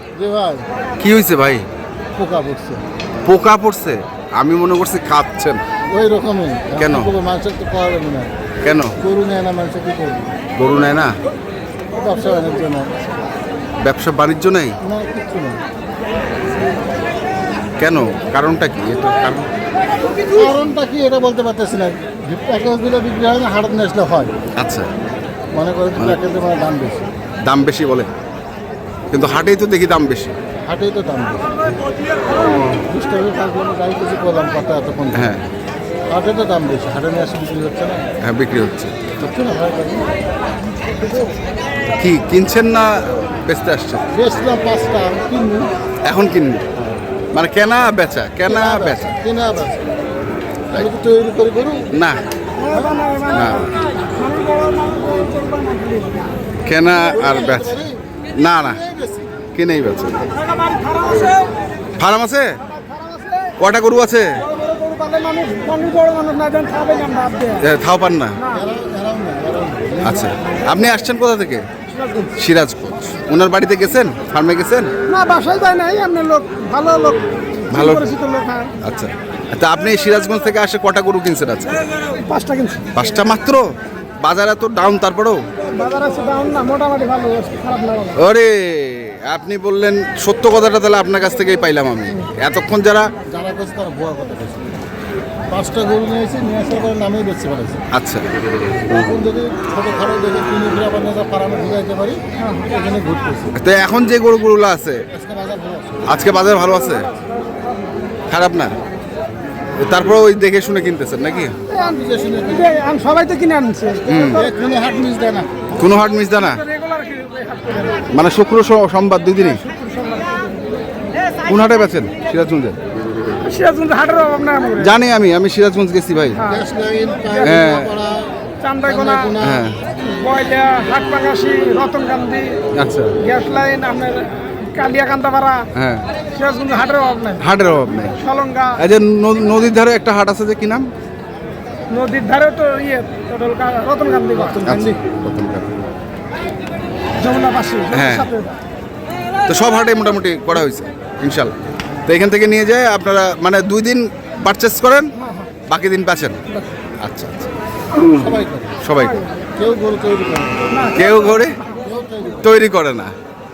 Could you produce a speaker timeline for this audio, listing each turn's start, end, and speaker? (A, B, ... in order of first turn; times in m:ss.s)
0:00.1-0:00.7 A
0:01.0-0:01.7 B
0:02.2-0:02.8 A
0:03.2-0:05.6 B
0:05.9-0:08.3 A
0:06.8-0:07.1 B
0:08.6-0:08.9 B
0:09.0-0:10.3 A
0:10.6-0:11.1 B
0:11.9-0:12.9 A
0:13.8-0:14.8 B
0:14.8-0:15.6 A
0:17.8-0:19.5 B
0:20.3-0:24.3 A
0:24.6-0:24.9 B
0:25.5-0:27.1 A
0:27.4-0:28.1 B
0:29.1-0:30.4 B
0:30.7-0:31.5 A
0:32.8-0:35.3 A
0:35.2-0:35.4 B
0:36.1-0:38.1 A
0:38.2-0:38.9 B
0:39.2-0:40.1 A
0:42.0-0:44.0 B
0:44.1-0:45.7 A
0:46.0-0:46.6 B
0:47.3-0:49.1 B
0:48.4-0:49.8 A
0:50.7-0:51.8 A
0:51.9-0:52.2 B
0:52.6-0:56.2 C
0:52.7-0:53.0 A
0:53.3-0:53.8 B
0:56.7-0:57.8 B
0:57.1-0:58.0 A
0:58.4-0:58.8 B
0:58.6-0:59.3 A
0:59.5-1:00.2 B
1:00.4-1:01.5 C
1:02.0-1:02.6 B
1:02.7-1:03.5 C
1:03.6-1:04.4 B
1:04.5-1:07.7 C
1:07.6-1:08.4 B
1:08.5-1:10.7 A
1:10.0-1:11.6 B
1:11.9-1:12.3 C
1:12.4-1:14.9 B
1:15.1-1:18.7 C
1:17.7-1:18.1 B
1:18.8-1:21.9 B
1:22.1-1:22.9 C
1:23.0-1:23.6 B
1:24.2-1:25.4 B
1:25.6-1:28.2 C
1:28.2-1:33.1 B
1:33.3-1:34.8 A
1:35.5-1:37.8 A
1:37.9-1:38.3 B
1:38.9-1:43.5 A
1:42.4-1:42.7 C
1:43.6-1:45.0 B
1:45.1-1:46.1 A
1:46.1-1:47.1 B
1:46.7-1:47.9 C
1:48.3-1:48.7 B
1:49.8-1:51.6 B
1:51.7-1:52.9 A
1:52.5-1:54.1 C
1:54.1-1:54.5 B
1:54.1-1:55.6 A
1:55.8-1:56.6 B
1:56.4-1:58.1 C
1:58.1-1:59.6 B
1:59.5-2:00.7 C
2:01.4-2:02.8 B
2:03.4-2:05.0 C
2:04.7-2:06.5 B
2:06.4-2:06.6 C
2:06.5-2:08.3 A
2:07.3-2:07.6 C
2:07.4-2:07.9 B
2:08.6-2:09.3 C
2:08.8-2:09.7 A
2:09.4-2:09.8 B
2:10.0-2:12.6 C
2:12.8-2:13.1 B
2:13.2-2:15.7 C
2:15.8-2:16.0 B
2:16.3-2:17.4 C
2:17.4-2:18.2 B
2:18.2-2:18.8 C
2:18.8-2:20.9 B
2:21.9-2:25.0 C
2:24.6-2:25.7 B
2:27.2-2:28.5 C
2:27.9-2:28.3 B
2:29.5-2:31.5 B
2:32.1-2:35.1 B
2:35.7-2:36.4 B
2:37.0-2:37.5 B
2:38.1-2:38.8 A
2:38.8-2:39.2 B
2:39.1-2:39.3 C
2:39.6-2:41.0 A
2:40.7-2:41.8 C
2:40.9-2:41.6 B
2:41.8-2:42.6 A
2:42.4-2:43.1 B